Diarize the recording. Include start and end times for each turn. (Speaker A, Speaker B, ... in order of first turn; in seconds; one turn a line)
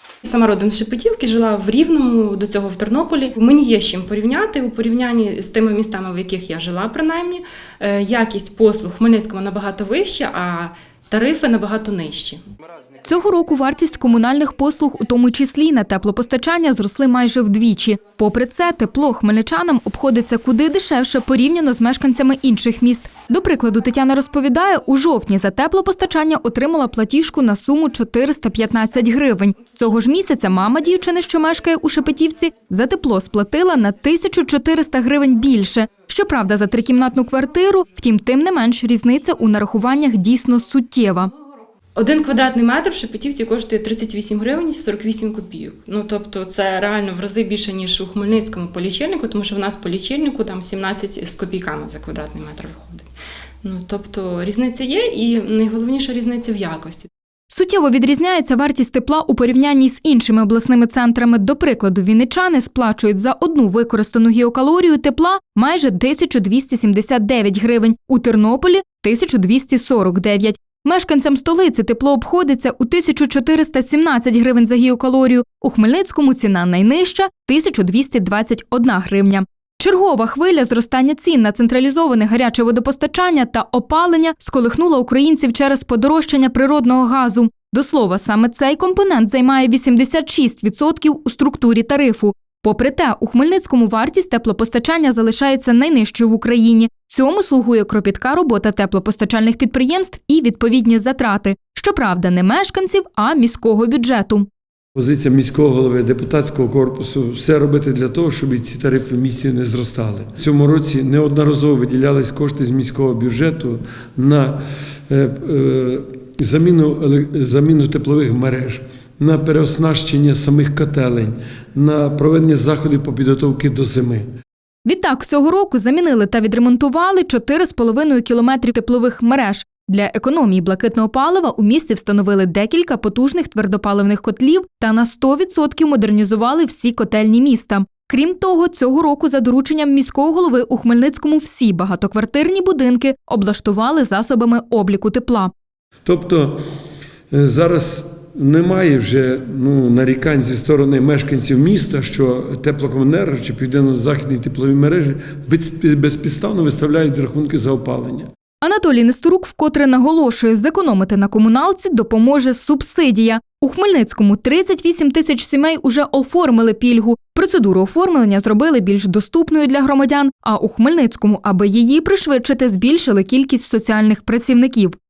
Speaker A: 0.2-12.4
Speaker B: 13.0-41.3
Speaker A: 42.0-53.1
Speaker A: 53.6-57.1
Speaker B: 57.5-104.5
Speaker C: 104.9-124.2
Speaker B: 124.8-145.5
Speaker C: 146.0-146.6
Speaker C: 147.3-158.3
Speaker B: 158.6-174.9